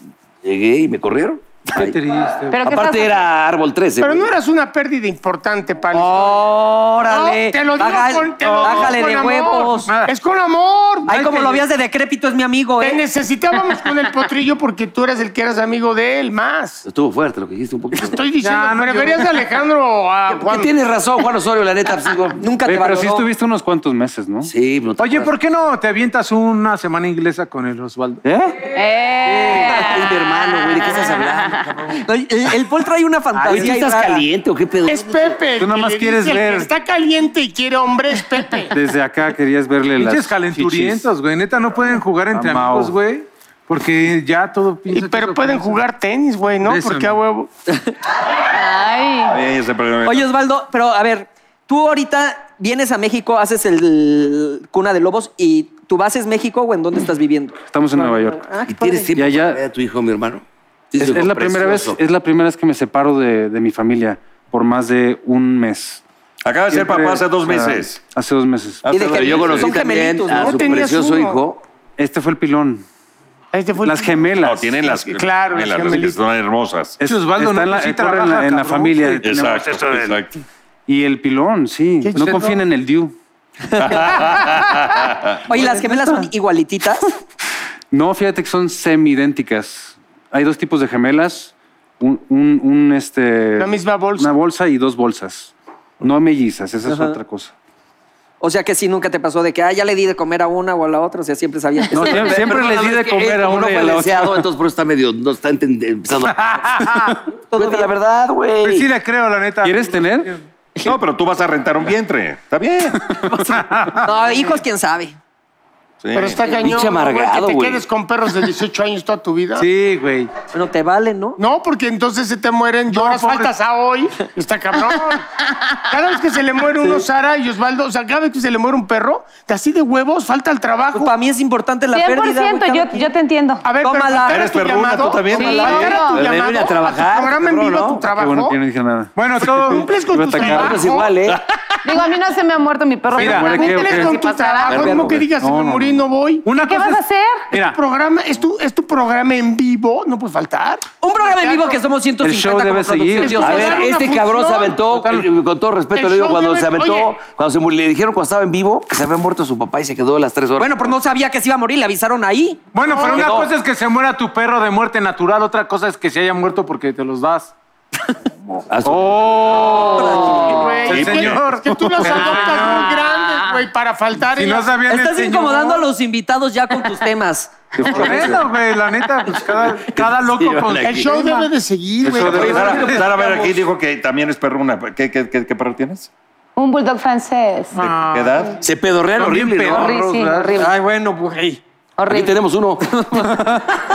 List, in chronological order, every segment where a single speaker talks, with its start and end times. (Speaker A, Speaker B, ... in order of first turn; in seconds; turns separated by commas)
Speaker A: 0.4-2.0, Speaker B: 1.7-2.6, Speaker C: 2.5-3.1, Speaker A: 2.6-4.3, Speaker D: 4.0-6.4, Speaker E: 5.9-9.9, Speaker D: 7.0-11.6, Speaker B: 8.4-9.1, Speaker B: 9.8-10.1, Speaker E: 11.1-13.0, Speaker D: 12.8-16.8, Speaker A: 16.9-18.2, Speaker D: 18.0-20.7, Speaker B: 18.4-19.3, Speaker A: 20.3-22.4, Speaker E: 22.4-23.3, Speaker F: 22.6-24.5, Speaker A: 24.4-25.3, Speaker B: 25.0-28.2, Speaker F: 28.2-28.6, Speaker C: 28.7-31.3, Speaker A: 29.5-32.0, Speaker E: 32.0-34.3, Speaker A: 33.4-35.4, Speaker D: 34.9-38.7, Speaker F: 35.6-36.7, Speaker F: 38.7-41.1, Speaker B: 40.0-45.9, Speaker F: 42.3-43.0, Speaker D: 44.9-47.5, Speaker B: 46.6-47.2, Speaker C: 48.5-49.4, Speaker G: 49.3-50.3, Speaker E: 50.0-59.1, Speaker F: 57.6-58.5, Speaker A: 58.7-62.0, Speaker F: 59.1-59.6, Speaker F: 61.0-66.0, Speaker G: 66.4-68.0, Speaker F: 66.7-68.9, Speaker G: 68.8-69.8, Speaker E: 68.9-70.8, Speaker A: 69.1-71.6, Speaker D: 70.3-71.4, Speaker F: 72.0-72.8, Speaker D: 73.5-76.2, Speaker F: 73.8-74.8, Speaker G: 74.4-77.0, Speaker F: 77.0-80.2, Speaker B: 77.0-79.5, Speaker G: 79.2-80.3, Speaker F: 80.9-83.2, Speaker D: 82.0-82.6, Speaker G: 83.7-85.5, Speaker E: 83.8-84.0, Speaker E: 85.5-87.1, Speaker F: 87.9-97.5, Speaker D: 93.6-94.3, Speaker E: 96.9-97.2, Speaker E: 98.4-103.0, Speaker F: 101.9-104.5, Speaker A: 102.0-106.5, Speaker B: 106.3-106.7, Speaker F: 106.8-107.2, Speaker E: 107.5-107.9, Speaker A: 107.5-108.9, Speaker B: 108.6-110.4, Speaker F: 109.6-110.4, Speaker G: 110.8-113.0, Speaker E: 113.3-115.2, Speaker G: 116.0-116.4, Speaker D: 116.1-119.7, Speaker A: 116.4-117.8, Speaker B: 119.6-120.3, Speaker E: 120.5-121.4, Speaker D: 121.4-125.3, Speaker B: 122.9-123.5, Speaker D: 125.9-131.1, Speaker E: 130.9-133.1, Speaker C: 131.9-133.6, Speaker D: 133.6-138.6, Speaker E: 133.8-134.4, Speaker G: 134.3-136.1, Speaker C: 135.3-136.2, Speaker A: 136.0-138.1, Speaker F: 138.1-140.9, Speaker B: 139.2-139.9, Speaker D: 139.7-141.2, Speaker A: 140.4-141.4, Speaker C: 141.8-145.1, Speaker B: 143.2-143.7, Speaker F: 143.2-144.2, Speaker D: 143.4-146.5, Speaker A: 144.7-145.2, Speaker F: 144.9-146.1, Speaker B: 146.4-147.0, Speaker C: 146.6-147.5, Speaker F: 147.5-147.8, Speaker D: 147.5-150.9, Speaker E: 151.0-153.9, Speaker D: 151.4-151.8, Speaker F: 152.2-153.7, Speaker D: 153.2-154.8, Speaker A: 153.4-160.9, Speaker B: 154.8-155.3, Speaker D: 155.9-157.1, Speaker E: 160.6-162.6, Speaker B: 162.7-167.5, Speaker D: 162.9-163.2, Speaker A: 163.0-163.5, Speaker A: 168.7-170.8, Speaker F: 168.8-169.9, Speaker E: 169.7-170.7, Speaker C: 169.8-170.6, Speaker D: 170.5-174.7, Speaker B: 170.9-173.0, Speaker F: 170.9-172.5, Speaker G: 170.9-171.4, Speaker E: 172.6-173.1, Speaker C: 173.1-173.4, Speaker B: 174.3-175.8, Speaker E: 174.9-178.3, Speaker F: 177.8-178.5, Speaker B: 177.9-181.5, Speaker A: 180.2-181.1, Speaker D: 180.8-182.7, Speaker F: 182.0-182.8, Speaker A: 182.2-183.7, Speaker B: 182.3-183.1, Speaker G: 182.4-186.1, Speaker C: 186.6-188.5, Speaker B: 187.8-188.4, Speaker G: 187.8-188.6, Speaker A: 188.6-190.0, Speaker B: 189.2-190.7, Speaker C: 189.7-190.7, Speaker E: 190.6-191.6, Speaker C: 192.0-192.4, Speaker A: 192.1-193.0, Speaker E: 192.9-193.5